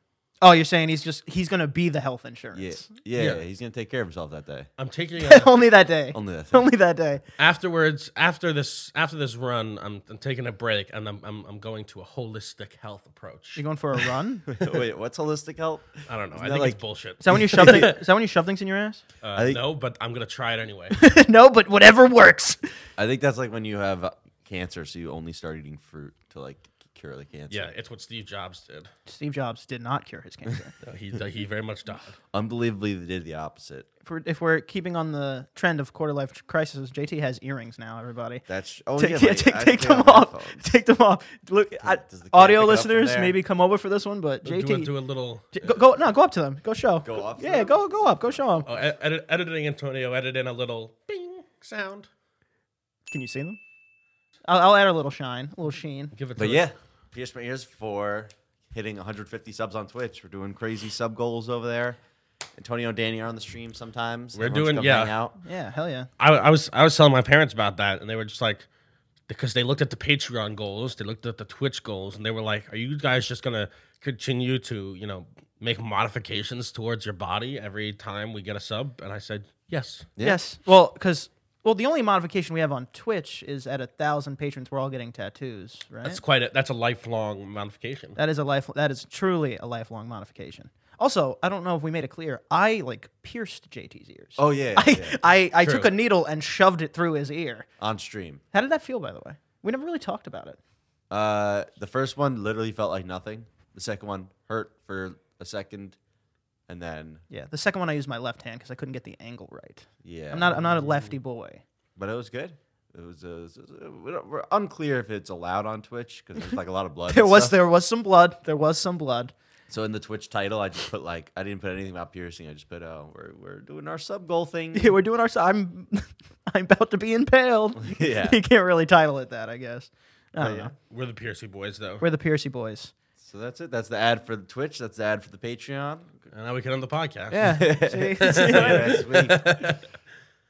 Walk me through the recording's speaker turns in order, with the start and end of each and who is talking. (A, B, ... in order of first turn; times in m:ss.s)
0:00.4-0:02.9 A
0:02.5-0:04.7 B
0:03.2-0:03.4 C
0:04.8-0:05.5 C
0:05.2-0:07.2 A
0:06.1-0:06.6 B
0:07.4-0:13.6 C
0:13.6-0:14.5 A
0:14.5-0:16.8 B
0:16.1-0:18.0 C
0:17.2-0:19.0 A
0:17.3-0:17.9 B
0:19.2-0:21.0 C
0:19.3-0:19.6 B
0:21.0-0:22.7 A
0:23.0-0:27.7 B
0:27.5-0:28.9 C
0:29.1-0:30.7 A
0:30.8-0:32.2 C
0:32.3-0:33.9 B
0:34.0-0:38.4 A
0:38.5-0:40.6 B
0:39.0-0:44.9 A
0:41.8-0:43.4 B
0:44.4-0:45.7 C
0:45.5-0:48.7 A
0:47.0-0:48.4 B
0:48.6-0:52.1 C
0:53.1-0:53.6 A
0:54.4-0:56.1 A
0:56.1-0:56.7 C
0:56.4-1:02.0 B
1:02.6-1:05.4 B
1:04.3-1:05.1 C
1:05.4-1:06.1 A
1:06.2-1:08.6 C
1:09.3-1:20.1 C
1:20.2-1:26.2 A
1:26.0-1:28.2 C
1:28.2-1:37.7 A
1:34.4-1:35.2 B
1:35.6-1:35.9 C
1:37.8-1:38.4 B
1:38.5-1:40.6 A
1:41.1-1:46.0 B
1:46.7-1:47.2 B
1:47.3-1:51.6 A
1:50.0-1:50.6 B
1:52.0-1:57.6 B
1:57.1-1:59.3 A
1:59.7-2:05.0 B
2:04.7-2:10.7 A
2:07.8-2:08.4 B
2:10.4-2:10.7 B
2:10.9-2:12.0 C
2:12.0-2:12.9 A
2:13.2-2:16.2 B
2:16.3-2:19.9 C
2:17.3-2:19.0 A
2:17.5-2:19.5 B